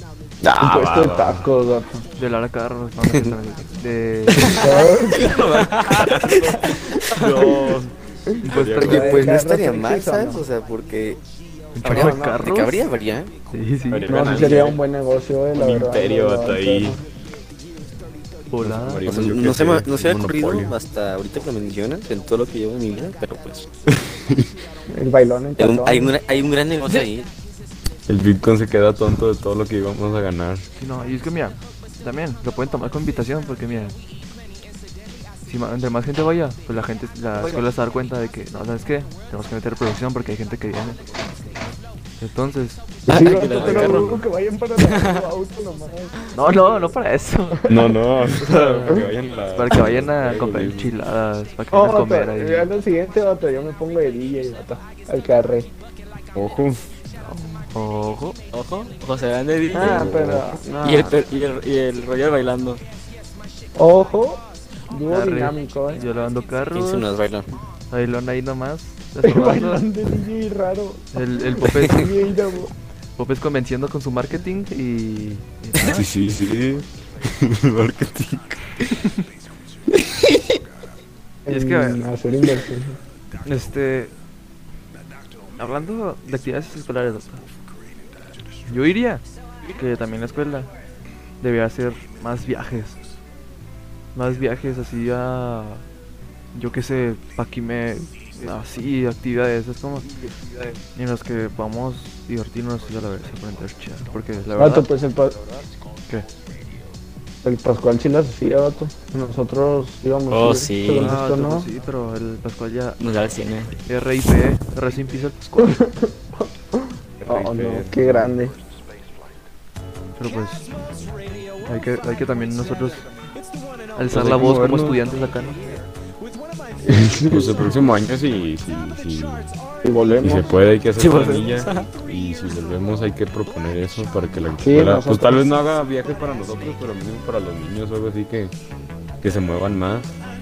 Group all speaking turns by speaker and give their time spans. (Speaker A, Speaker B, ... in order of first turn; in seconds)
Speaker A: 0.6-1.5, 5.1-9.3, 13.9-14.8, 15.5-17.0, 18.6-20.8, 23.9-24.4, 28.1-30.6, 47.7-50.9, 56.4-56.9, 59.8-60.5, 75.8-78.7, 117.2-118.3, 124.1-125.0, 126.9-129.6, 130.2-138.5, 139.2-140.1
Speaker B: 0.6-2.1, 4.5-5.6, 6.8-7.8, 8.7-10.5, 11.8-12.5, 14.1-17.0, 24.9-26.2, 43.1-46.8, 47.6-48.0, 51.7-55.7, 59.7-61.2, 63.8-66.0, 69.2-72.7, 81.5-83.0, 104.5-105.4, 107.4-111.7, 115.6-116.1, 116.8-118.5, 126.9-127.7, 129.8-130.5, 134.6-135.5
Speaker C: 2.2-4.6, 8.4-9.4, 11.7-12.8, 13.5-14.1, 18.5-19.0, 30.8-34.0, 35.5-41.0, 42.2-42.8, 43.5-44.1, 46.3-47.6, 48.4-52.7, 57.2-58.4, 65.1-67.1, 67.9-69.9, 71.1-72.3, 73.2-76.0, 81.5-82.0, 83.4-84.1, 85.5-87.5, 88.7-90.7, 91.4-93.0, 94.1-95.8, 96.5-100.1, 100.9-104.9, 111.0-113.0, 113.8-115.8, 120.2-120.7, 121.6-123.1, 124.0-125.7
Speaker D: 3.1-3.3, 8.9-11.2, 11.8-13.3, 19.1-23.7, 25.6-27.3, 66.7-67.6, 71.7-72.0
Speaker E: 5.6-6.1, 7.1-7.5, 43.1-45.2, 58.5-60.1, 60.8-62.8, 110.3-111.2, 113.0-113.7, 131.0-131.9